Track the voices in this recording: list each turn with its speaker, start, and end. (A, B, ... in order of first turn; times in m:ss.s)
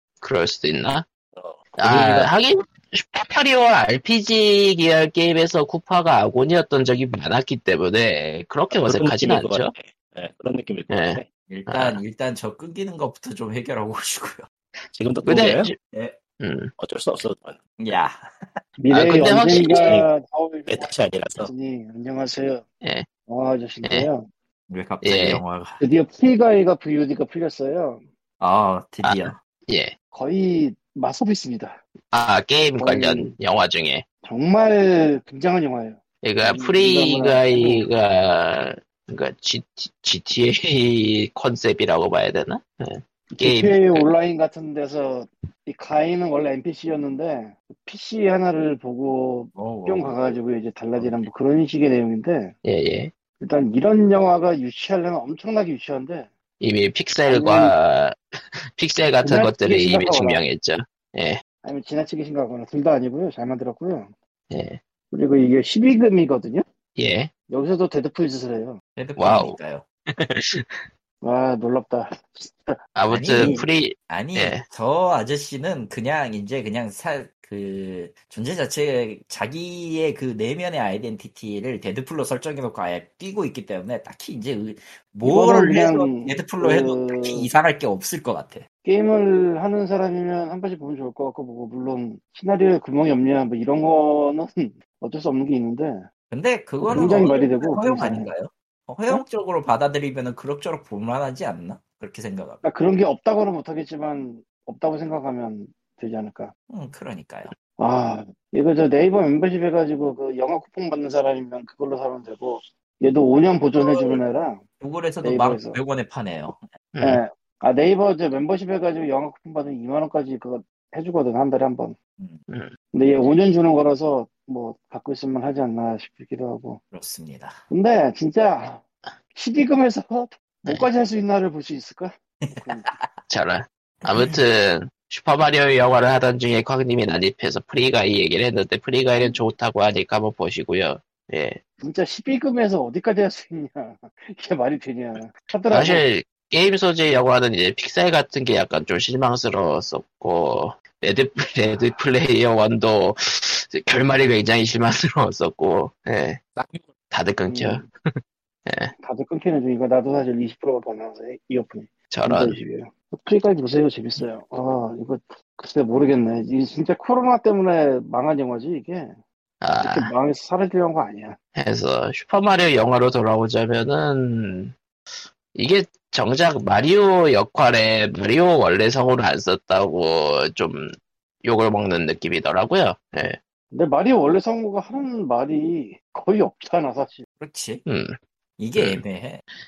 0:00.2-0:01.0 A
0:01.3-0:02.3 B
0:01.8-0:09.7 A
0:08.7-0:11.3 B
0:10.9-0:12.0 A
0:11.5-0:14.4 C
0:14.9-0:15.7 B
0:15.2-0:15.8 A
0:15.9-0:16.2 C
0:16.4-0:16.7 A
0:16.8-0:17.6 B
0:17.8-0:18.3 C
0:18.8-0:22.6 D
0:18.9-0:20.0 A
0:19.7-0:20.0 B
0:20.7-0:21.5 B
0:23.3-0:24.2 D
0:23.8-0:24.1 A
0:24.7-0:25.8 C
0:25.0-0:25.4 A
0:25.8-0:28.0 D
0:28.4-0:29.4 C
0:29.0-0:29.9 A
0:30.1-0:31.8 D
0:32.1-0:34.0 A
0:32.8-0:33.3 D
0:34.2-0:37.9 D
0:36.2-0:44.0 A
0:43.3-0:52.6 D
0:49.5-0:50.1 C
0:51.0-0:51.2 C
0:52.6-0:53.1 A
0:53.4-0:56.3 D
0:56.6-0:58.2 A
0:57.3-0:57.7 D
0:58.8-1:01.4 A
0:59.2-1:00.4 D
1:01.6-1:04.1 D
1:04.5-1:04.8 A
1:05.1-1:06.6 D
1:07.0-1:07.3 A
1:07.5-1:08.8 D
1:09.0-1:09.8 C
1:09.2-1:09.6 A
1:10.1-1:10.8 A
1:11.2-1:13.7 D
1:12.9-1:14.6 A
1:13.1-1:28.6 C
1:25.2-1:27.5 D
1:28.8-1:36.0 D
1:36.3-1:42.6 C
1:36.8-1:38.3 D
1:42.6-1:46.5 D
1:46.7-1:47.5 C
1:47.8-1:54.6 D
1:53.8-1:54.2 C
1:54.8-1:56.6 C
1:55.2-1:55.8 D
1:56.9-1:57.2 A
1:57.0-2:02.0 D
2:02.9-2:06.8 D
2:06.9-2:07.6 C
2:07.7-2:08.8 D
2:09.3-2:12.9 D
2:12.4-2:13.1 C
2:13.3-2:21.6 A
2:14.1-2:14.4 C
2:21.8-2:26.0 D
2:25.7-2:36.4 A
2:36.6-2:36.9 B
2:37.1-2:37.9 A
2:37.5-2:37.8 D
2:38.7-2:38.9 A
2:39.0-2:49.1 D
2:42.1-2:42.6 A
2:49.6-2:50.1 A
2:49.8-2:51.4 D
2:51.6-2:54.7 A
2:55.5-3:03.4 A
3:03.7-3:07.2 D
3:07.4-3:07.8 C
3:07.8-3:08.2 A
3:08.6-3:09.4 C
3:08.8-3:09.0 A